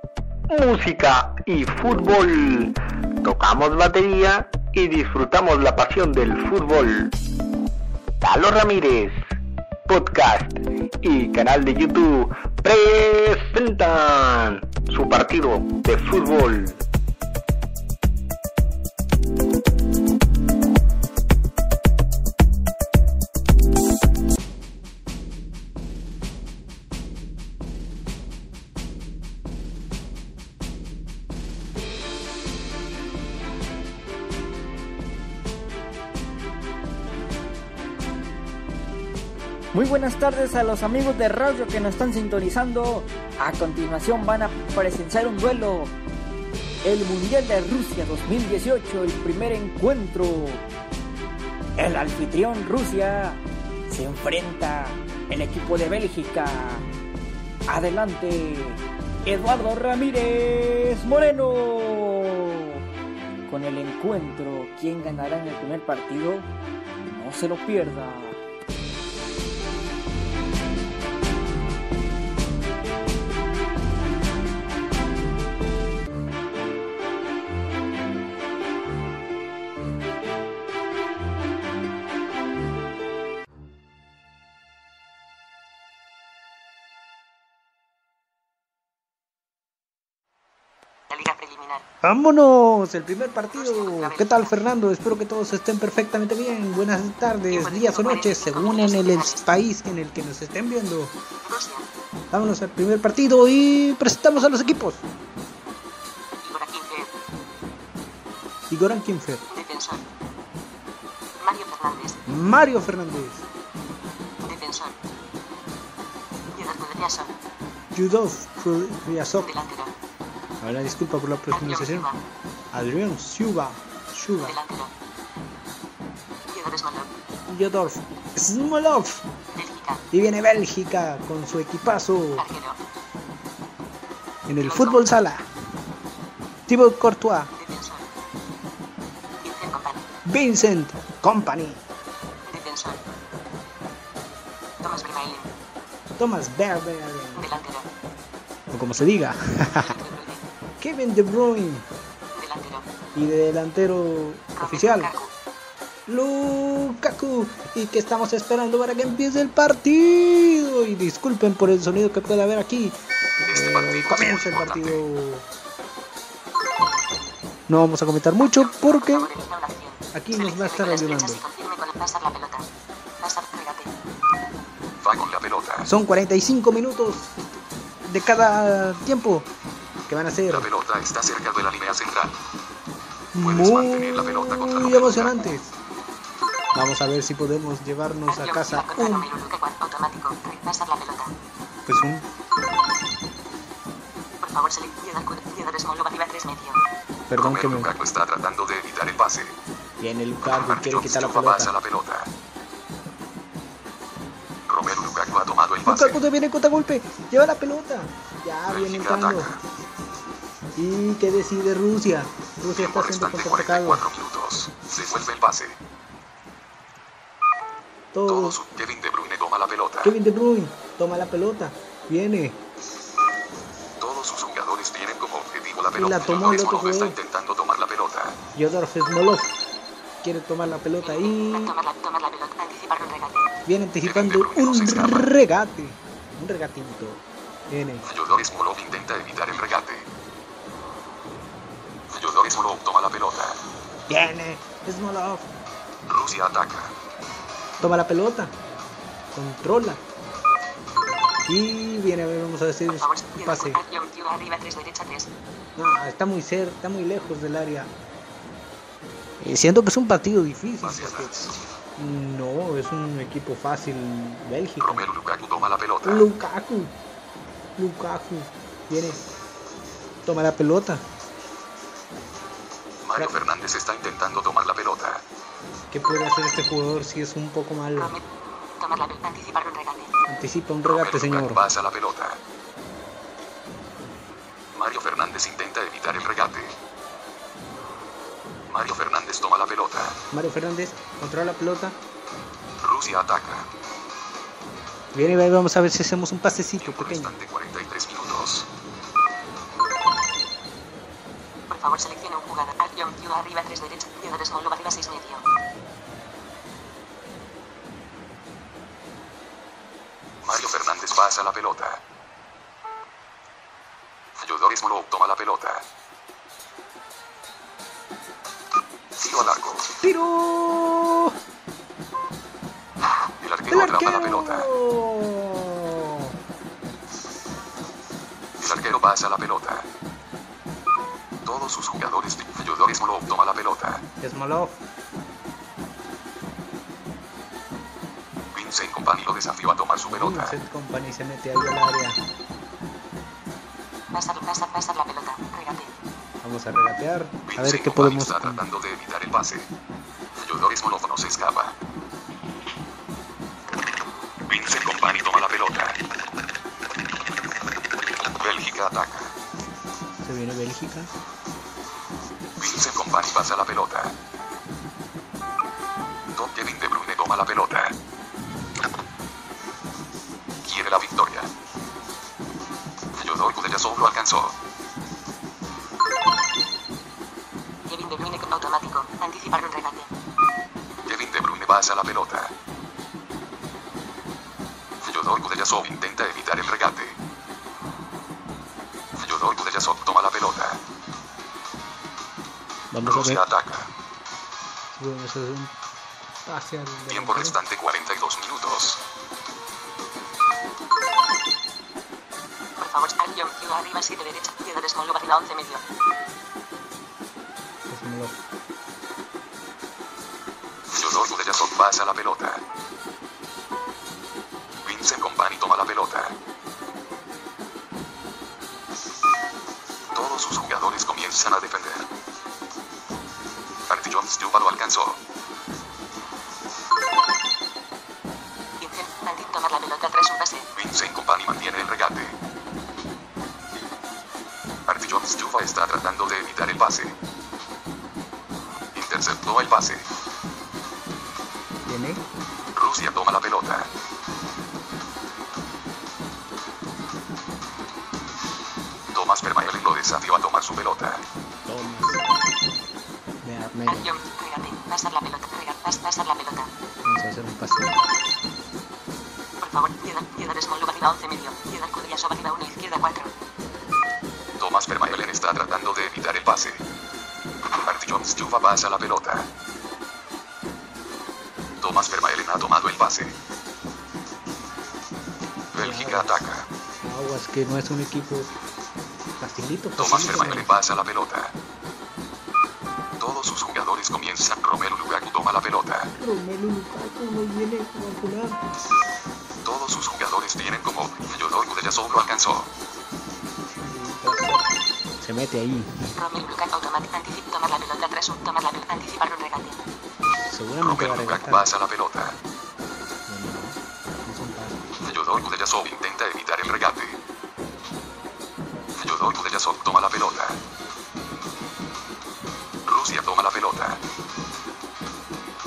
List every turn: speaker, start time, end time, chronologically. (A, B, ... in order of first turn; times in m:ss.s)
0:00.5-0:07.1 A
0:08.2-0:09.2 A
0:09.9-0:16.8 A
0:39.7-0:45.9 B
0:46.8-0:50.6 B
0:51.8-0:56.9 B
0:57.7-1:02.6 B
1:03.5-1:06.5 B
1:07.0-1:08.4 B
1:31.1-1:31.8 C
1:32.0-1:41.2 D
1:33.5-1:34.6 C
1:37.5-1:39.5 C
1:41.4-1:41.9 C
1:42.3-1:45.0 D
1:46.4-1:47.1 C
1:48.7-1:49.4 D
1:49.5-1:50.0 C
1:51.4-1:52.2 C
1:52.3-1:53.4 D
1:54.4-1:55.0 C
1:56.5-1:57.4 C
1:57.9-1:59.5 D
1:59.4-1:59.9 C
2:00.6-2:02.1 D
2:01.5-2:02.2 C
2:02.7-2:04.6 D
2:04.4-2:04.9 C
2:06.5-2:07.1 C
2:07.5-2:09.3 D
2:09.5-2:10.0 C
2:10.1-2:12.5 D
2:12.4-2:12.8 C
2:14.5-2:15.5 D
2:14.6-2:15.1 C
2:16.7-2:17.5 D
2:17.6-2:18.1 C
2:19.4-2:20.0 C
2:20.3-2:21.8 D
2:22.5-2:23.0 C
2:24.8-2:25.5 C
2:26.2-2:27.5 D
2:27.4-2:27.9 C
2:28.7-2:30.0 D
2:29.8-2:30.4 C
2:30.8-2:31.9 D
2:32.3-2:32.9 C
2:33.1-2:35.1 D
2:34.6-2:35.3 C
2:36.1-2:45.5 D
2:43.5-2:45.0 E
2:47.7-2:49.3 D
2:48.4-2:52.6 C
2:50.1-2:51.4 D
2:53.2-2:53.9 C
2:55.0-2:55.9 E
2:55.8-2:57.3 D
2:58.1-2:59.5 D
3:00.1-3:00.7 D
3:00.5-3:02.4 E
3:03.3-3:05.8 D
3:03.4-3:05.4 E
3:06.7-3:09.3 D
3:08.3-3:11.3 C
3:11.9-3:12.3 D
3:14.4-3:16.8 C
3:17.3-3:17.9 D
3:17.4-3:19.6 E
3:20.0-3:21.7 D
3:20.4-3:22.3 E
3:24.7-3:26.2 E
3:25.9-3:29.5 D
3:28.7-3:29.6 E
3:30.8-3:34.0 D
3:32.8-3:35.8 E
3:38.1-3:38.6 D
3:38.3-3:40.2 E
3:40.0-3:42.6 D
3:44.0-3:48.4 E
3:46.0-3:47.2 D
3:48.6-3:49.6 D
3:50.2-3:51.8 D
3:51.0-3:53.5 C
3:53.7-3:58.1 D
3:54.0-3:55.3 E
3:58.1-4:00.1 E
4:02.1-4:03.6 E
4:04.1-4:05.5 D
4:06.1-4:06.9 E
4:07.8-4:08.6 D
4:09.3-4:10.0 D
4:11.5-4:13.8 D
4:12.9-4:15.3 C
4:15.8-4:17.9 D
4:19.4-4:21.3 D
4:20.8-4:21.6 E
4:22.0-4:25.1 D
4:24.8-4:26.3 E
4:26.0-4:27.0 D
4:27.8-4:29.3 D
4:30.2-4:31.1 D
4:33.0-4:35.2 E
4:35.9-4:38.1 D
4:38.0-4:40.1 C
4:40.3-4:41.7 D
4:40.8-4:42.4 E
4:44.7-4:46.7 E
4:48.7-4:50.2 E
4:50.3-4:52.0 D
4:52.8-4:53.7 E
4:55.1-4:57.4 D
4:56.8-4:58.7 E
5:01.7-5:05.5 C
5:10.4-5:12.0 E
5:14.4-5:15.9 E
5:19.2-5:19.9 E
5:20.0-5:21.4 D
5:23.4-5:24.7 E
5:23.7-5:26.3 D
5:28.6-5:29.9 E
5:31.4-5:34.0 E
5:34.2-5:34.8 D
5:38.5-5:40.6 E
5:40.1-5:42.2 D
5:44.1-5:45.9 C
5:46.4-5:48.6 D
5:47.5-5:49.7 E
5:50.4-5:51.8 E
5:54.5-5:56.0 E
5:58.4-5:59.3 E
6:00.2-6:01.1 D
6:02.6-6:04.2 E
6:06.3-6:08.0 E
6:10.6-6:11.5 E
6:13.2-6:14.6 E
6:17.9-6:20.1 C
6:21.1-6:22.5 E
6:25.0-6:27.2 E
6:29.2-6:30.8 E
6:32.9-6:33.4 D
6:33.0-6:33.9 E
6:34.9-6:35.7 D
6:36.4-6:37.6 D
6:37.1-6:39.0 E
6:42.8-6:45.8 C
6:47.9-6:48.4 D
6:50.9-6:52.6 E
6:54.8-6:56.4 E
7:00.1-7:02.1 E
7:03.9-7:05.2 E
7:08.8-7:10.7 C
7:10.8-7:12.4 E
7:14.9-7:17.2 E
7:19.0-7:20.0 E
7:21.9-7:22.2 D
7:22.8-7:23.9 E
7:29.1-7:31.2 E
7:31.6-7:32.2 D
7:33.4-7:34.1 D
7:33.9-7:36.7 C
7:37.0-7:38.0 D
7:39.6-7:43.3 C
7:44.6-7:46.8 E
7:47.8-7:49.5 E
7:51.8-7:53.3 E
7:55.7-7:56.7 E
7:55.8-7:56.3 D
7:57.0-7:58.5 D
7:59.4-8:00.7 D
8:00.0-8:01.6 E
8:03.2-8:06.1 E
8:06.2-8:08.6 D
8:09.6-8:12.7 E
8:13.8-8:16.0 D
8:16.2-8:19.8 C
8:20.4-8:21.7 D
8:20.8-8:22.4 E
8:23.3-8:24.9 D
8:25.0-8:27.2 E
8:29.0-8:30.6 E
8:32.9-8:34.0 E